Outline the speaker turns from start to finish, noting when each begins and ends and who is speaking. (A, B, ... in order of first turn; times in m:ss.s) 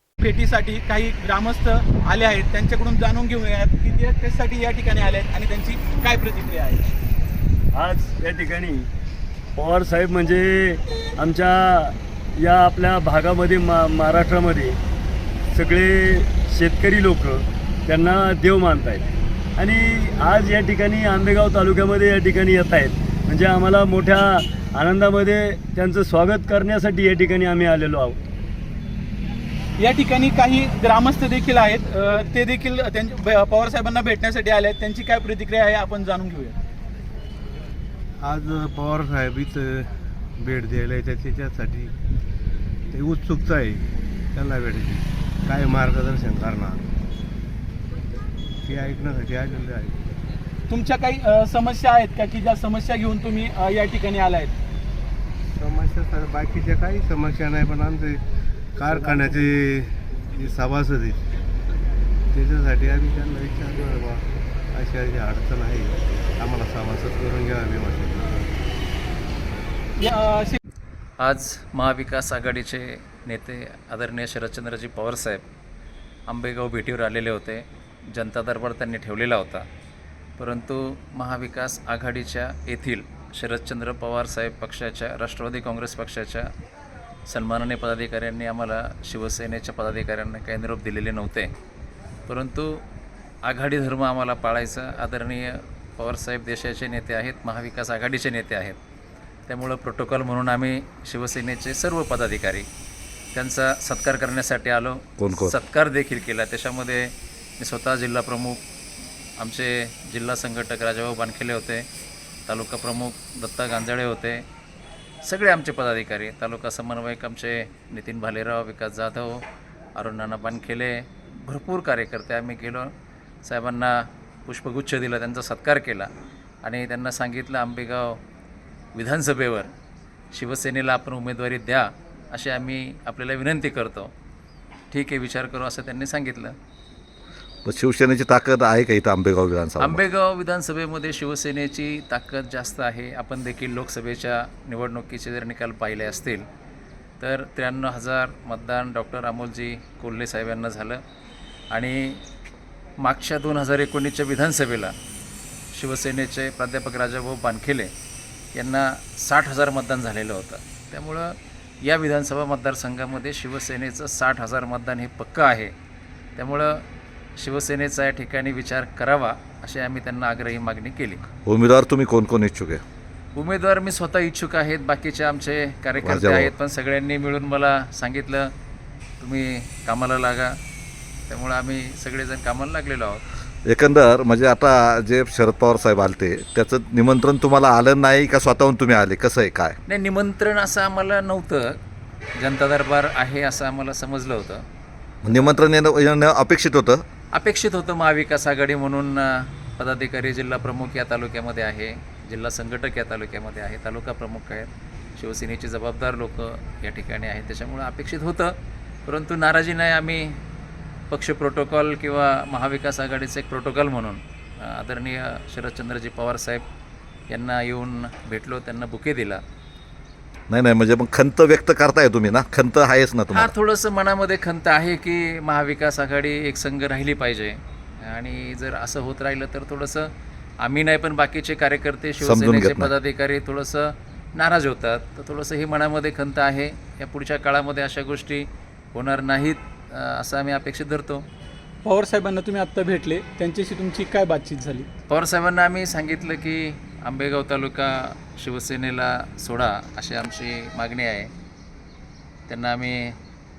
0:00.2-0:06.9 A
0:07.7-0:08.8 B
0:09.6-0:14.8 B
0:15.5-0:19.0 B
0:19.6-0:28.2 B
0:29.8-0:36.5 A
0:38.2-0:41.9 C
0:42.9-0:46.8 C
0:48.6-0:50.0 C
0:50.7-0:54.5 A
0:55.6-0:58.2 C
0:58.8-1:01.2 C
1:02.3-1:08.5 C
1:10.0-1:10.6 A
1:11.2-1:15.4 D
1:16.3-1:19.7 D
1:20.4-1:26.5 D
1:27.3-1:31.5 D
1:32.3-1:32.8 D
1:33.4-1:38.8 D
1:39.5-1:42.7 D
1:43.3-1:48.6 D
1:45.2-1:45.6 E
1:49.4-1:51.9 D
1:52.5-1:54.4 D
1:55.2-1:59.4 D
2:00.0-2:02.9 D
2:03.4-2:06.1 D
2:06.6-2:08.2 D
2:08.9-2:09.7 D
2:10.3-2:14.1 D
2:14.9-2:16.6 D
2:17.6-2:20.0 E
2:19.8-2:26.4 D
2:27.2-2:31.0 D
2:31.7-2:32.2 D
2:33.0-2:34.9 D
2:35.7-2:37.9 D
2:38.6-2:45.7 D
2:46.4-2:46.8 D
2:47.4-2:51.2 D
2:51.4-2:52.8 E
2:53.3-2:58.5 D
2:56.0-2:56.5 E
2:59.2-3:00.6 D
3:01.3-3:03.2 D
3:03.7-3:09.8 E
3:09.9-3:11.8 D
3:12.4-3:14.6 D
3:15.2-3:17.0 E
3:15.3-3:15.6 D
3:17.3-3:28.6 D
3:29.1-3:30.4 D
3:31.1-3:36.6 D
3:37.3-3:39.4 D
3:40.5-3:43.5 E
3:43.3-3:50.1 D
3:50.6-4:01.3 D
3:52.2-3:52.9 E
4:01.8-4:04.9 A
4:05.1-4:11.3 D
4:12.5-4:13.2 D